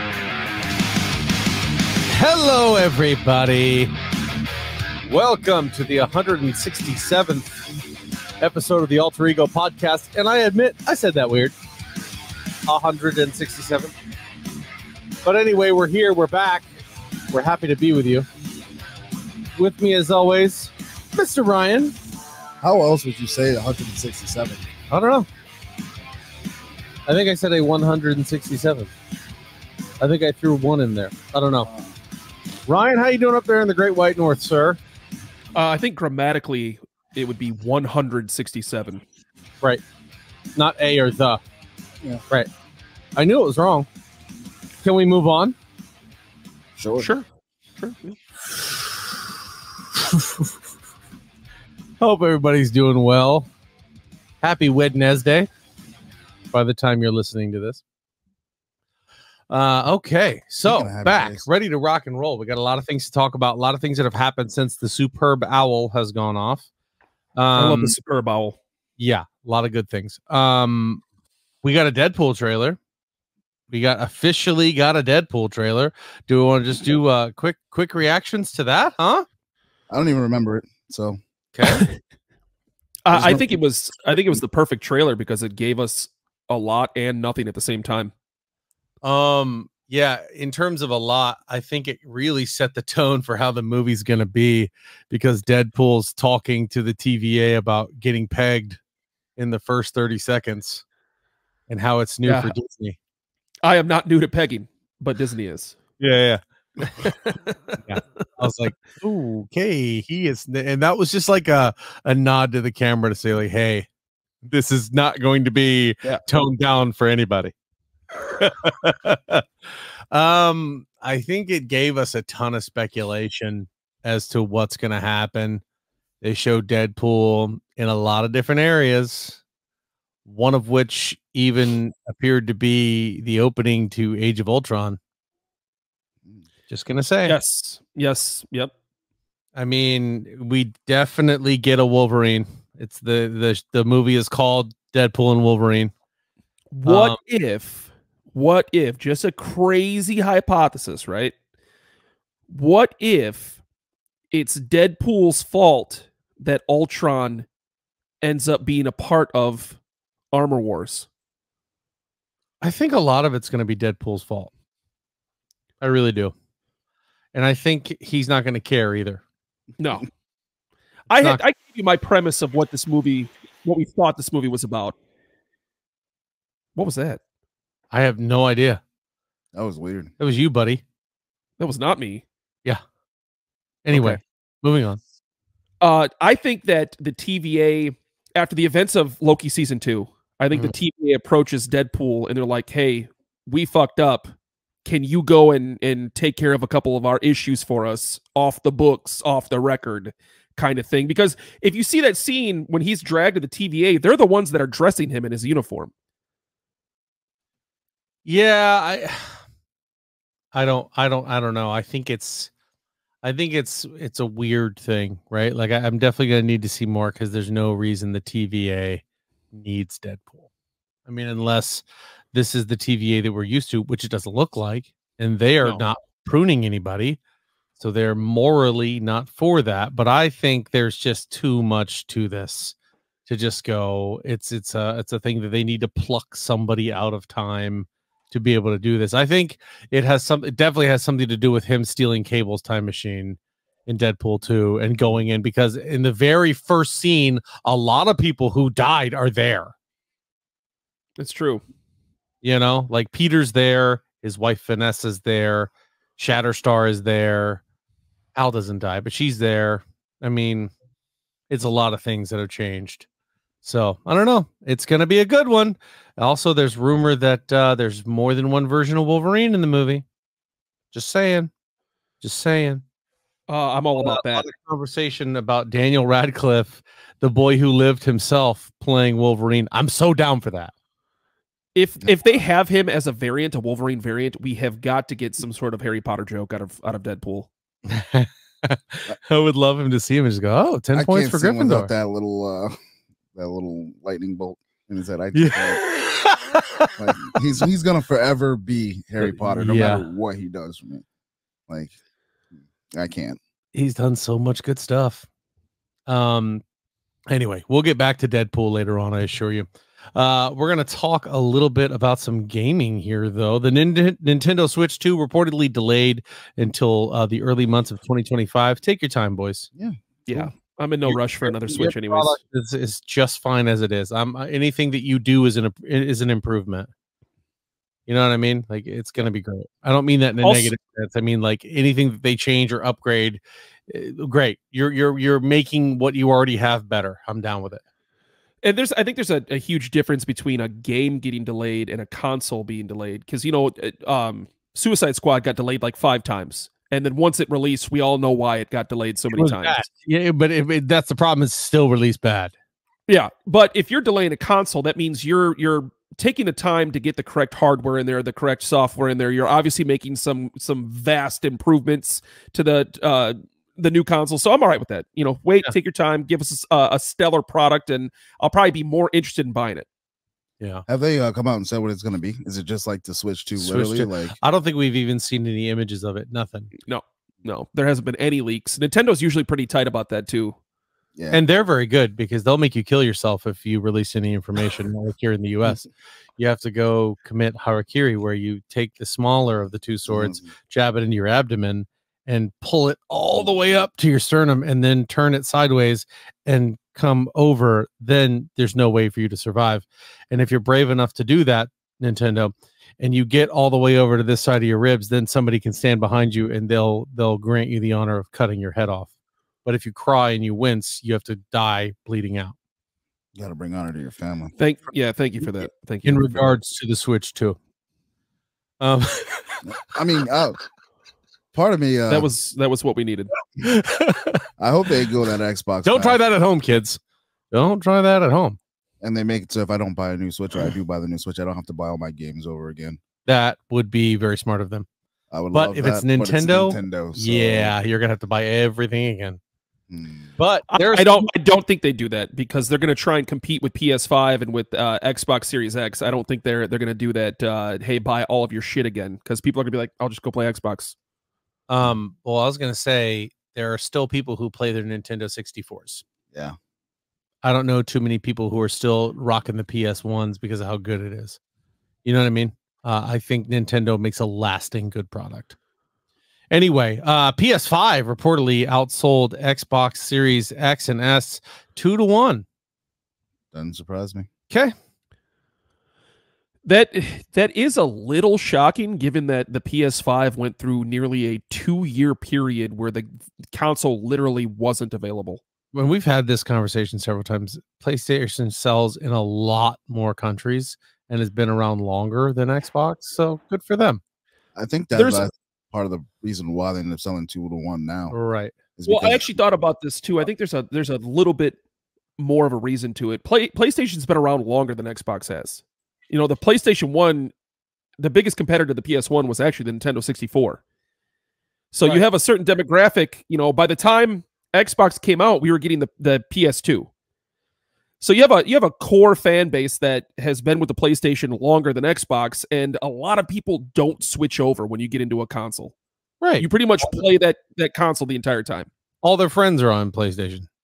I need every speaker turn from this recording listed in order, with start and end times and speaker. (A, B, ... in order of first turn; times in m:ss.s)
0:02.1-0:03.9 A
0:05.1-0:07.5 A
0:08.4-0:11.5 A
0:12.7-0:13.9 A
0:15.2-0:16.6 A
0:17.3-0:18.3 A
0:19.6-0:21.9 A
0:22.6-0:24.6 B
0:24.9-0:25.3 A
0:27.1-0:28.9 A
0:30.0-0:31.7 A
0:31.7-0:31.9 B
0:32.7-0:34.8 A
0:35.5-0:39.0 C
0:40.5-0:41.4 A
0:43.2-0:43.9 A
0:44.8-0:45.6 A
0:46.8-0:47.1 B
0:47.0-0:47.2 C
0:47.8-0:48.1 C
0:50.0-0:50.5 A
0:52.0-0:53.5 A
0:54.4-0:55.5 A
0:56.5-0:57.8 A
0:59.5-1:06.7 A
1:00.6-1:01.5 B
1:07.4-1:08.0 A
1:07.5-1:08.6 C
1:09.0-1:11.0 A
1:11.6-1:12.8 A
1:13.7-1:19.2 A
1:19.9-1:21.2 B
1:21.5-1:21.8 A
1:21.6-1:21.9 C
1:23.0-1:28.1 C
1:23.1-1:23.6 B
1:29.0-1:38.8 A
1:39.4-1:40.8 A
1:41.7-1:43.0 A
1:42.3-1:42.5 C
1:43.6-1:45.8 C
1:46.0-1:47.1 A
1:47.0-1:47.3 C
1:47.8-1:53.9 A
1:54.4-1:57.5 A
1:58.3-1:59.4 A
2:00.1-2:05.6 A
2:06.2-2:09.4 A
2:10.2-2:15.0 A
2:16.7-2:17.4 A
2:17.2-2:18.7 C
2:19.5-2:25.9 A
2:26.7-2:31.3 C
2:26.8-2:27.2 A
2:32.5-2:33.6 C
2:34.3-2:37.5 C
2:38.2-2:39.8 C
2:40.3-2:41.1 C
2:42.6-2:44.5 A
2:45.8-2:46.3 A
2:47.3-2:49.2 A
2:49.8-2:50.1 C
2:51.1-2:54.9 C
2:51.1-2:51.4 A
2:56.8-2:57.2 C
2:57.9-2:58.8 A
2:59.5-3:00.1 B
3:00.2-3:00.8 A
3:01.6-3:02.2 C
3:03.8-3:05.0 A
3:03.9-3:04.2 C
3:05.8-3:14.3 C
3:14.8-3:25.9 C
3:28.2-3:29.4 A
3:30.5-3:32.5 A
3:33.2-3:40.4 A
3:41.1-3:47.2 A
3:47.8-3:52.7 A
3:53.3-4:09.7 A
4:11.2-4:11.6 C
4:12.4-4:17.6 A
4:18.3-4:20.7 A
4:21.5-4:23.1 A
4:23.6-4:30.0 A
4:30.9-4:31.5 A
4:32.2-4:32.8 A
4:33.5-4:34.5 C
4:34.0-4:40.7 A
4:41.7-4:47.5 C
4:47.9-4:51.9 A
4:50.9-4:52.8 B
4:53.3-4:55.8 B
4:55.3-4:57.0 A
4:57.0-5:01.0 B
4:59.2-5:00.0 A
5:01.7-5:01.9 B
5:02.9-5:03.4 B
5:03.7-5:05.2 A
5:06.1-5:06.6 A
5:07.3-5:19.7 A
5:20.3-5:22.4 C
5:21.1-5:26.9 A
5:28.1-5:37.8 A
5:30.4-5:30.7 C
5:38.6-5:49.8 C
5:49.3-5:52.5 A
5:53.1-6:09.9 C
6:10.9-6:14.4 B
6:13.6-6:16.7 A
6:16.8-6:20.6 C
6:21.2-6:21.4 B
6:21.3-6:25.8 A
6:26.4-6:49.1 A
6:30.1-6:30.5 B
6:49.6-6:52.6 A
6:53.3-6:54.5 B
6:54.6-6:56.6 C
6:56.0-6:57.6 A
6:58.8-6:59.6 A
6:59.6-7:00.6 B
7:01.5-7:02.3 B
7:02.1-7:03.3 C
7:03.6-7:04.4 A
7:04.6-7:06.2 B
7:05.8-7:07.0 A
7:07.5-7:08.6 A
7:09.0-7:13.0 B
7:13.2-7:14.9 A
7:15.3-7:17.7 B
7:15.5-7:19.4 A
7:19.9-7:20.3 B
7:20.4-7:21.6 A
7:20.7-7:31.0 C
7:31.7-7:36.0 A
7:37.4-7:41.4 A
7:42.0-7:45.6 A
7:46.5-7:52.4 A
7:53.5-7:54.3 B
7:56.6-8:05.4 C
8:05.7-8:14.0 A
8:14.6-8:18.1 B
8:14.9-8:15.2 C
8:18.1-8:18.5 A
8:18.8-8:19.4 B
8:18.9-8:21.6 C
8:22.2-8:27.3 C
8:28.0-8:30.6 C
8:31.7-8:36.9 C
8:38.0-8:45.7 C
8:46.2-8:47.0 A
8:46.4-8:48.7 C
8:49.0-8:50.5 A